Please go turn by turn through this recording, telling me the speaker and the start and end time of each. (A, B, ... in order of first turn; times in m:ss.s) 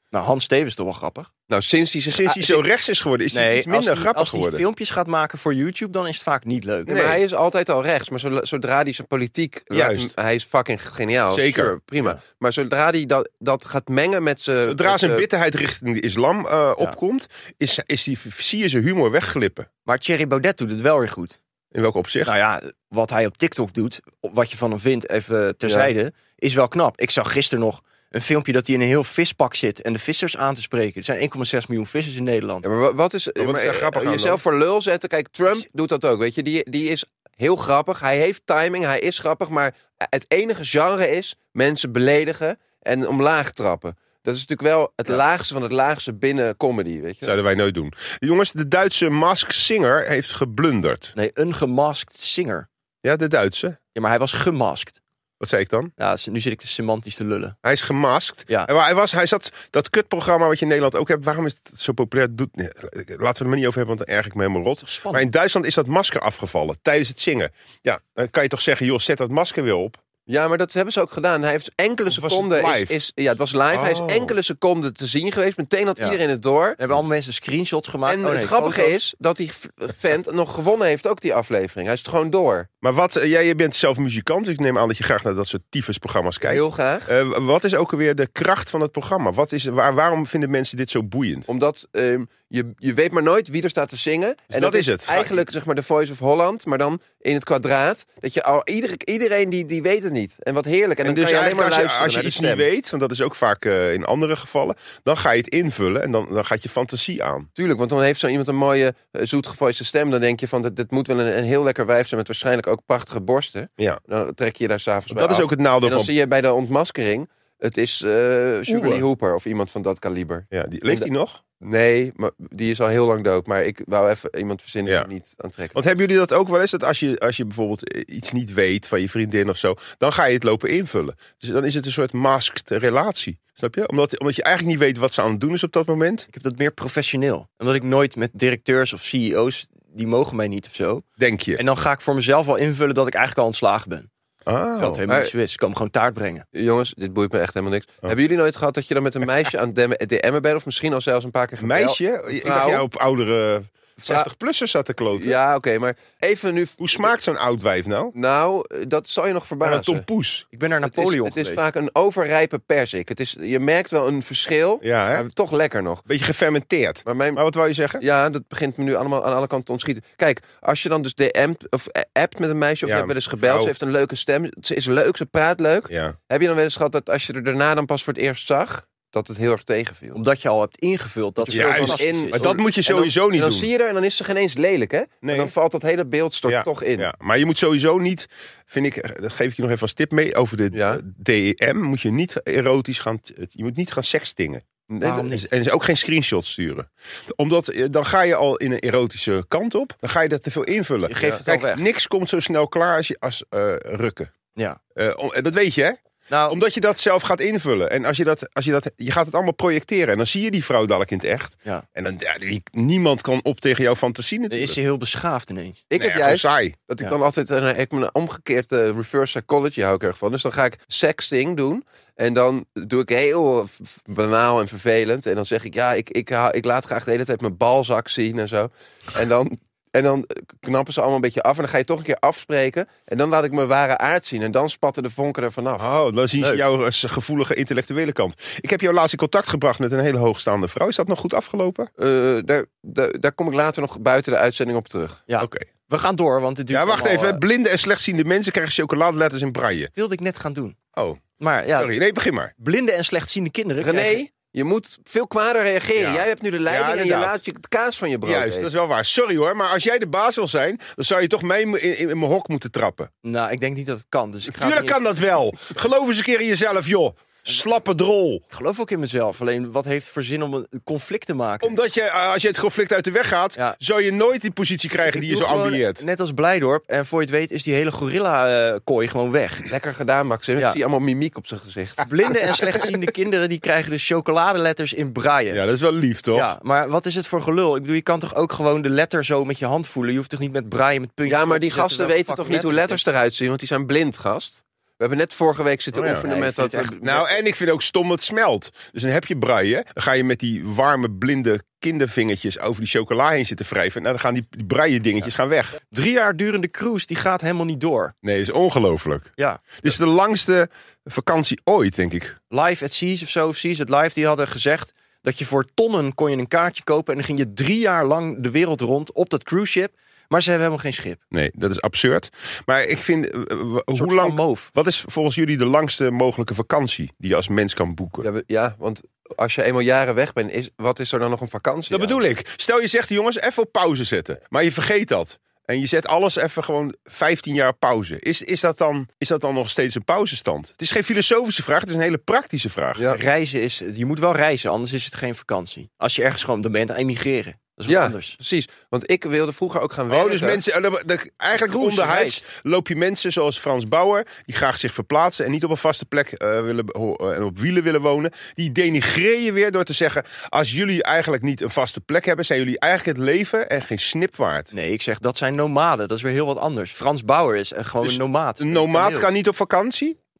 0:00.1-0:01.3 A
0:01.5-0:02.6 B
0:02.1-0:04.6 C
0:03.3-0:06.9 A
0:06.9-0:15.3 B
0:06.9-0:07.2 C
0:09.7-0:10.1 C
0:11.3-0:11.7 C
0:14.7-0:19.7 C
0:19.9-0:21.4 A
0:21.7-0:22.3 C
0:22.2-0:32.6 A
0:25.6-0:25.9 B
0:32.6-0:47.4 B
0:33.4-0:34.4 C
0:47.2-0:51.1 C
0:51.2-0:52.7 A
0:53.0-0:53.8 C
0:54.0-0:55.0 A
0:55.4-0:55.9 C
0:56.0-0:57.6 A
0:57.6-1:10.0 C
1:04.8-1:05.2 A
1:10.3-1:16.8 B
1:12.1-1:13.0 C
1:13.7-1:14.4 C
1:16.8-1:19.0 A
1:18.1-1:22.7 B
1:22.8-1:31.5 C
1:26.4-1:27.1 B
1:31.5-1:42.7 B
1:34.5-1:35.4 C
1:41.0-1:47.5 C
1:47.6-2:01.1 B
1:55.1-1:56.1 C
1:58.7-1:59.1 C
2:00.5-2:01.4 C
2:01.6-2:05.8 B
2:05.7-2:16.3 C
2:16.3-2:21.0 A
2:21.2-2:21.6 C
2:21.6-2:24.1 A
2:24.5-2:25.0 C
2:24.8-2:26.4 A
2:26.5-2:32.9 B
2:31.6-2:35.4 C
2:34.0-2:34.3 B
2:35.1-2:37.1 B
2:36.8-2:38.1 C
2:38.2-2:40.1 B
2:39.6-2:40.5 C
2:40.5-2:41.6 A
2:40.8-2:46.1 B
2:44.8-2:45.2 C
2:46.1-2:48.0 C
2:47.0-2:47.4 B
2:48.0-3:00.2 B
2:52.8-2:53.7 C
2:55.9-2:56.2 C
3:00.1-3:02.4 A
3:01.4-3:07.1 B
3:01.5-3:03.7 C
3:05.2-3:05.5 C
3:06.5-3:14.6 C
3:10.7-3:11.0 B
3:14.9-3:15.3 B
3:15.0-3:15.5 A
3:15.4-3:24.3 C
3:21.1-3:21.8 A
3:25.0-3:26.0 C
3:26.3-3:26.6 A
3:26.5-3:34.8 C
3:34.5-3:35.8 A
3:35.9-3:55.8 B
3:36.0-3:36.8 C
3:55.8-4:01.9 C
4:02.0-4:05.2 B
4:05.3-4:07.4 A
4:05.4-4:05.7 C
4:06.7-4:09.9 C
4:10.0-4:10.8 A
4:11.0-4:11.2 C
4:11.4-4:12.0 A
4:11.8-4:12.5 C
4:12.6-4:14.2 A
4:13.8-4:18.7 B
4:16.0-4:17.4 C
4:18.2-4:23.1 C
4:23.2-4:25.0 A
4:24.5-4:28.4 C
4:28.5-4:31.7 A
4:31.6-4:36.0 C
4:35.0-4:39.7 A
4:39.7-4:42.8 B
4:42.0-4:45.6 A
4:45.5-4:46.5 C
4:46.3-4:53.0 A
4:51.2-4:57.3 B
4:55.9-4:57.0 A
4:56.0-4:56.2 C
4:57.0-5:05.8 C
5:05.9-5:08.1 A
5:08.2-5:12.4 C
5:09.4-5:09.6 A
5:12.5-5:21.2 A
5:21.3-5:28.3 C
5:23.9-5:24.7 A
5:28.2-5:32.2 B
5:31.9-5:43.1 C
5:43.1-5:48.4 A
5:47.9-5:50.6 B
5:50.1-6:04.7 C
5:51.7-5:52.4 A
6:04.7-6:09.3 A
6:08.0-6:10.2 C